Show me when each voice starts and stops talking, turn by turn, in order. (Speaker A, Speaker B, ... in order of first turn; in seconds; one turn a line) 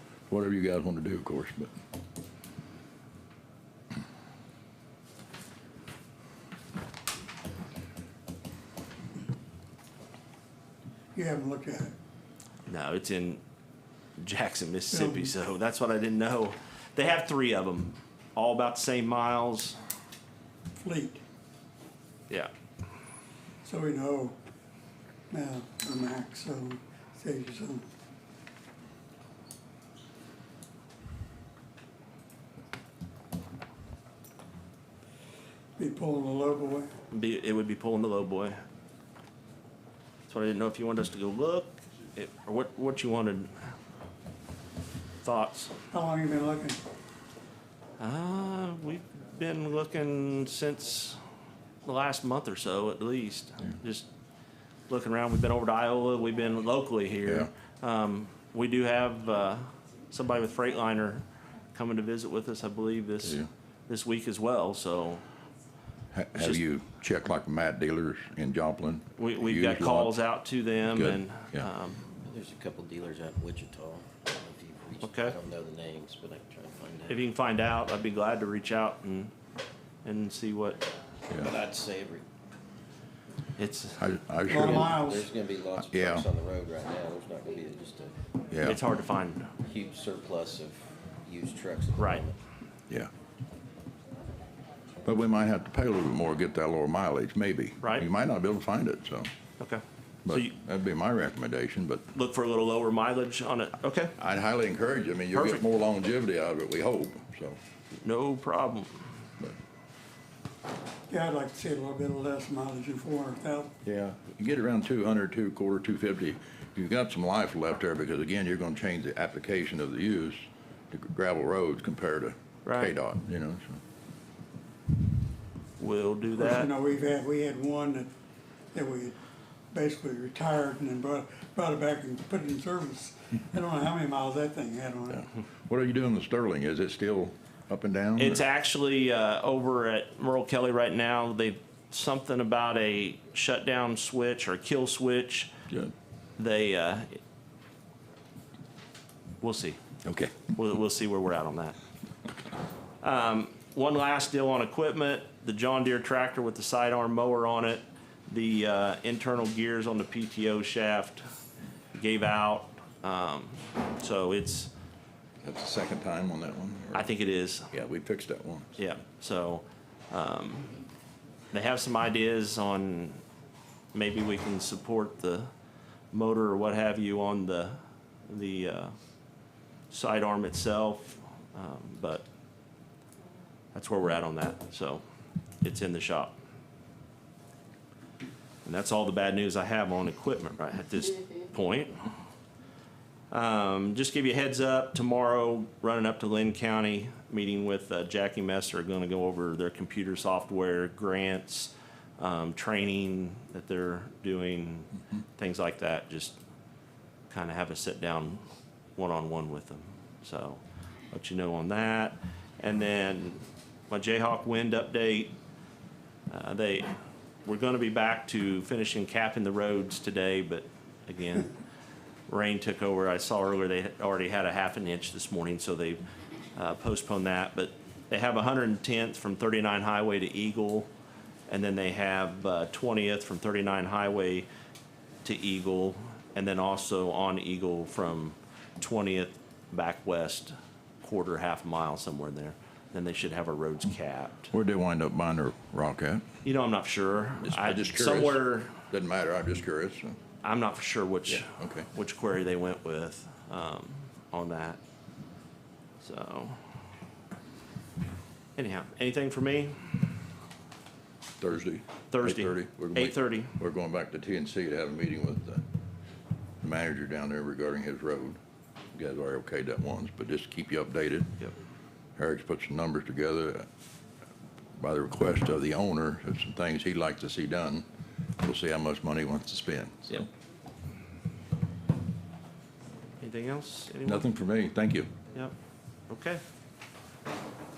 Speaker A: 0.3-1.7
Speaker B: 11.2-11.9
Speaker C: 12.7-13.4
Speaker C: 14.2-19.8
Speaker B: 14.9-15.3
Speaker B: 20.8-21.2
Speaker B: 23.6-24.4
Speaker B: 25.3-27.8
Speaker B: 35.8-36.9
Speaker C: 37.1-38.6
Speaker C: 40.3-43.7
Speaker C: 45.2-45.7
Speaker B: 45.9-46.8
Speaker C: 48.0-51.2
Speaker C: 51.8-54.1
Speaker C: 54.9-65.2
Speaker A: 66.1-70.2
Speaker C: 69.2-72.1
Speaker A: 70.9-71.7
Speaker D: 72.2-77.2
Speaker C: 75.0-75.4
Speaker C: 77.1-79.3
Speaker C: 80.0-80.8
Speaker D: 81.4-82.3
Speaker C: 83.6-84.1
Speaker A: 84.0-85.0
Speaker B: 84.5-85.3
Speaker D: 84.5-88.2
Speaker A: 85.8-86.2
Speaker A: 88.5-88.9
Speaker C: 88.6-89.5
Speaker D: 89.6-92.4
Speaker C: 92.0-92.2
Speaker A: 95.0-99.3
Speaker C: 97.8-98.1
Speaker C: 99.6-100.5
Speaker A: 100.2-102.1
Speaker C: 102.1-104.2
Speaker A: 104.2-107.6
Speaker C: 105.3-105.6
Speaker C: 108.0-109.2
Speaker B: 111.1-113.7
Speaker A: 113.8-123.8
Speaker C: 122.7-122.9
Speaker C: 125.8-126.7
Speaker B: 126.4-128.1
Speaker B: 128.7-129.2
Speaker B: 129.7-135.3
Speaker A: 135.1-138.4
Speaker C: 138.2-145.5
Speaker C: 146.4-147.2
Speaker C: 149.4-149.8
Speaker A: 150.0-150.4
Speaker C: 150.4-151.8
Speaker C: 153.0-161.2
Speaker C: 161.9-164.7
Speaker A: 165.4-167.1
Speaker C: 166.9-167.7
Speaker A: 167.7-168.8
Speaker C: 168.8-170.8
Speaker C: 171.5-173.2
Speaker C: 173.9-175.5
Speaker C: 176.1-179.0
Speaker C: 179.9-182.2
Speaker C: 183.7-185.0
Speaker C: 185.6-186.4
Speaker C: 188.7-192.1
Speaker C: 193.3-206.4
Speaker C: 207.3-208.4
Speaker C: 209.0-215.3
Speaker C: 216.3-216.9
Speaker C: 217.4-221.6
Speaker C: 222.3-226.0
Speaker C: 226.6-230.9
Speaker C: 231.5-234.5
Speaker C: 235.2-244.5
Speaker A: 244.5-246.2
Speaker C: 246.4-248.8
Speaker A: 247.4-250.2
Speaker C: 250.4-254.8
Speaker A: 251.3-251.9
Speaker C: 256.0-256.6
Speaker C: 258.6-259.9
Speaker A: 261.4-265.6
Speaker C: 262.1-263.5
Speaker A: 266.6-268.4
Speaker A: 268.9-271.3
Speaker A: 272.2-273.7
Speaker A: 274.8-277.9
Speaker A: 278.4-280.3
Speaker C: 283.2-284.3
Speaker A: 284.0-285.1
Speaker C: 286.1-286.4